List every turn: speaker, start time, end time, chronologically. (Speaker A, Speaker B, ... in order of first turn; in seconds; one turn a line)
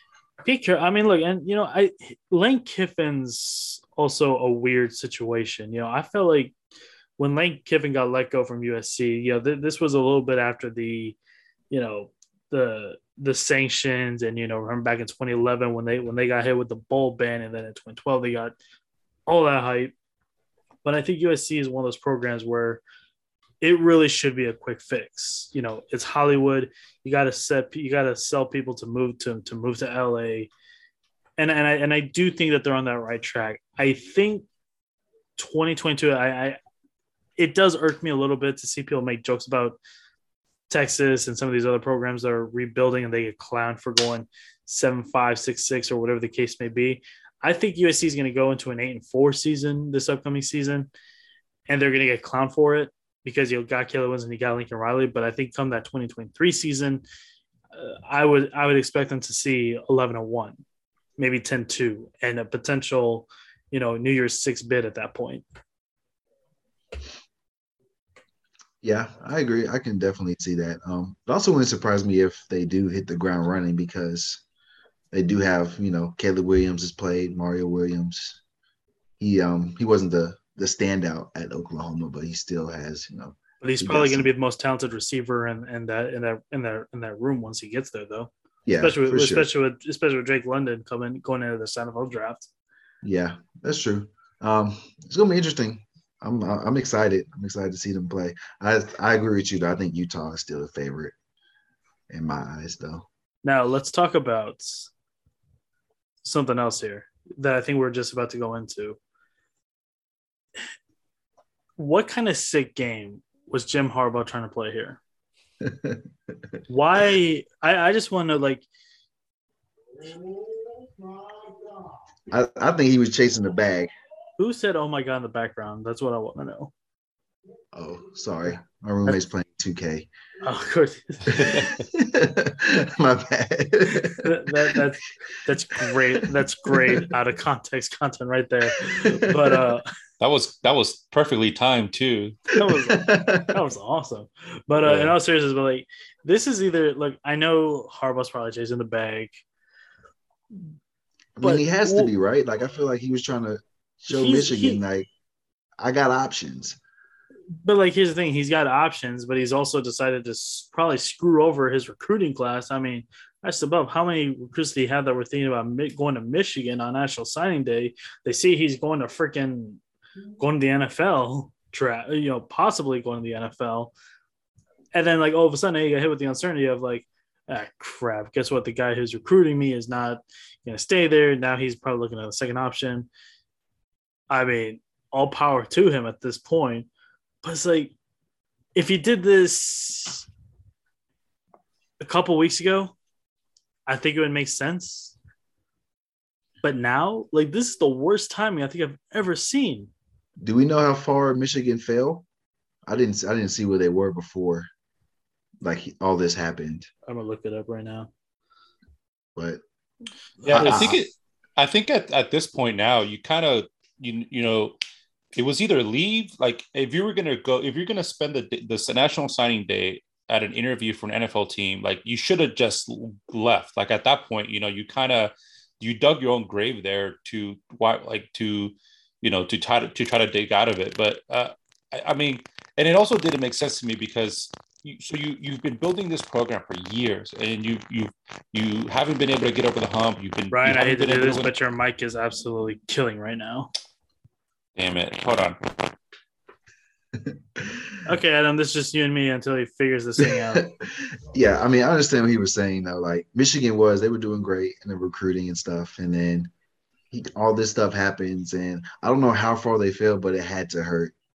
Speaker A: 0.4-6.5
Speaker A: 7.2-11.2
Speaker A: 11.7-18.6
Speaker A: 19.3-19.9
Speaker A: 20.8-22.8
Speaker A: 23.6-30.5
Speaker A: 31.4-34.5
Speaker A: 35.4-36.6
Speaker A: 37.4-39.8
Speaker A: 40.7-50.9
Speaker A: 51.7-57.0
Speaker A: 57.7-60.6
Speaker A: 61.2-65.4
Speaker B: 68.8-74.4
Speaker B: 75.1-78.4
Speaker B: 79.2-84.3
Speaker A: 83.6-92.5
Speaker B: 88.7-89.5
Speaker B: 93.0-101.1
Speaker B: 102.1-103.1
Speaker A: 103.4-104.9
Speaker A: 106.2-109.0
Speaker A: 111.8-115.0
Speaker B: 115.6-116.0
Speaker A: 116.7-118.7
Speaker B: 122.3-123.9
Speaker A: 124.4-126.7
Speaker B: 127.7-130.1
Speaker A: 130.4-131.7
Speaker B: 131.3-134.8
Speaker C: 131.4-131.7
Speaker A: 134.2-139.9
Speaker B: 136.2-137.0
Speaker B: 138.9-139.7
Speaker C: 140.2-142.5
Speaker A: 142.6-149.4
Speaker B: 142.7-143.6
Speaker C: 144.8-145.1
Speaker B: 151.3-155.1
Speaker A: 151.4-152.1
Speaker A: 154.1-154.8
Speaker B: 155.8-156.8
Speaker A: 157.6-169.8
Speaker A: 170.4-173.9
Speaker A: 174.9-183.1
Speaker A: 184.3-186.9
Speaker A: 187.4-187.9
Speaker A: 188.7-190.3
Speaker A: 192.0-192.9
Speaker A: 193.9-195.2
Speaker A: 196.6-199.9
Speaker B: 200.4-202.2
Speaker B: 202.8-204.7
Speaker B: 205.6-206.9
Speaker A: 207.1-208.1
Speaker B: 209.3-209.6
Speaker C: 210.4-214.8
Speaker B: 210.5-211.0
Speaker A: 210.5-211.0
Speaker C: 215.3-241.5
Speaker A: 240.5-243.7
Speaker C: 244.8-245.9
Speaker A: 248.0-250.7
Speaker B: 250.2-250.7
Speaker B: 251.3-256.5
Speaker B: 257.1-261.1